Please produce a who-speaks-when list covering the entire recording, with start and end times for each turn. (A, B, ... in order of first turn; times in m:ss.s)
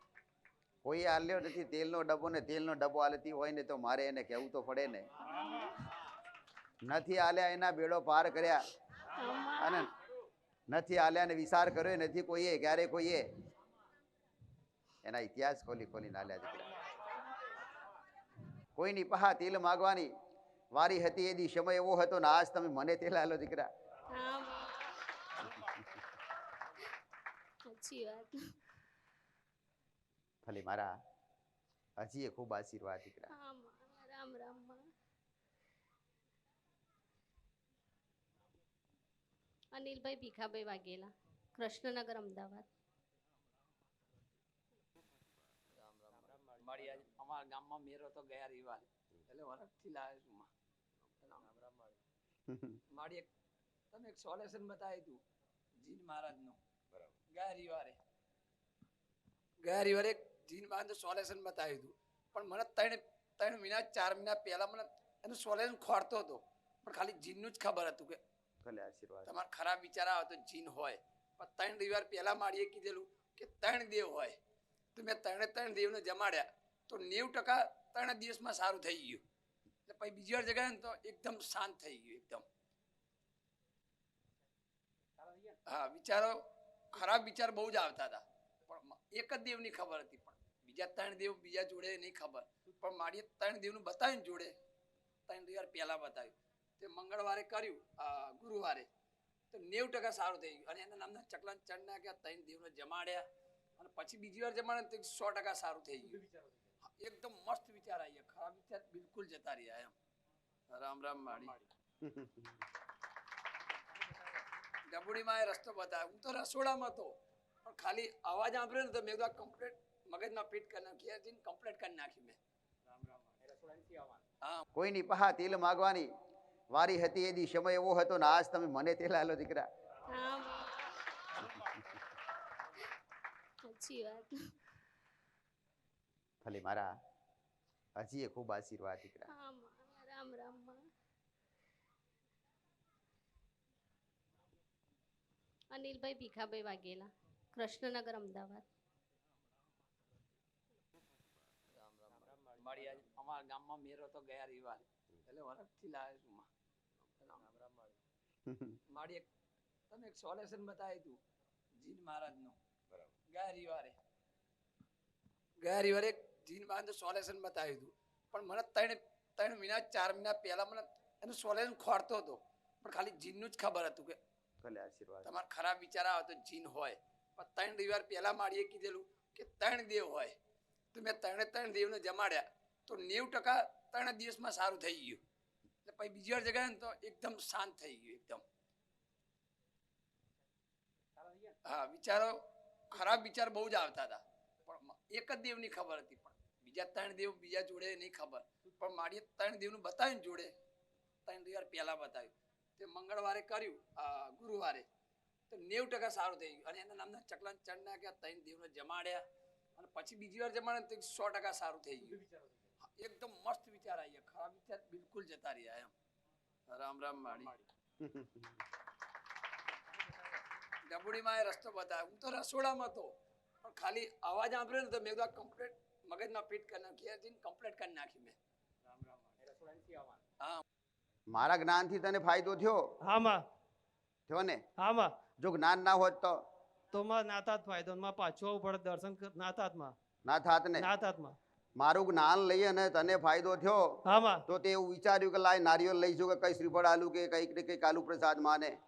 0:00.8-0:05.1 A
0:06.8-0:08.7 A
0:09.2-0:09.9 B
0:09.6-0:09.9 A
0:10.7-0:13.3 A
0:15.0-0:16.7 A
0:18.8-0:20.1 A
0:20.7-0:23.7 A
0:24.1-0:24.9 B
0:27.7-0:28.4 B
0:30.4-0:30.9 A
0:32.0-0:33.3 A
0:33.3-0:34.8 B
0:39.7-0:42.6 B
0:45.8-0:50.5 C
0:51.2-0:51.9 C
0:52.5-0:52.8 A
0:52.9-0:53.3 C
0:53.9-0:55.2 C
0:55.8-0:56.6 C
0:57.3-0:58.0 C
0:59.6-1:08.2 C
1:08.6-1:09.3 A
1:09.3-1:14.4 C
1:15.0-1:19.2 C
1:19.9-1:22.4 C
1:25.7-1:34.5 C
1:35.3-1:38.9 C
1:39.5-1:43.3 C
1:43.8-1:46.2 C
1:46.8-1:49.9 C
1:50.7-1:51.6 C
1:52.0-1:52.6 A
1:54.9-2:02.4 C
2:04.8-2:06.1 A
2:06.7-2:09.7 A
2:10.1-2:10.9 B
2:13.7-2:14.4 B
2:16.4-2:16.9 A
2:18.0-2:19.3 A
2:19.3-2:20.8 B
2:25.7-2:28.6 B
2:31.7-2:36.5 C
2:37.2-2:37.9 C
2:38.5-2:38.8 A
2:38.9-2:39.3 C
2:39.9-2:41.2 C
2:41.8-2:42.6 C
2:43.3-2:44.0 C
2:45.6-2:54.2 C
2:54.6-2:55.3 A
2:55.2-3:00.4 C
3:00.9-3:05.2 C
3:05.8-3:08.4 C
3:11.6-3:20.5 C
3:21.3-3:24.9 C
3:25.5-3:29.2 C
3:29.8-3:32.2 C
3:32.8-3:35.9 C
3:36.7-3:37.5 C
3:38.0-3:38.6 A
3:40.9-3:48.4 C
3:51.3-3:52.8 A
3:53.1-3:53.4 D
3:54.3-3:54.6 A
3:54.8-3:55.2 D
3:55.4-3:56.4 A
3:56.9-3:59.9 D
4:00.2-4:00.9 A
4:00.8-4:01.4 D
4:01.8-4:08.7 A
4:04.1-4:04.4 D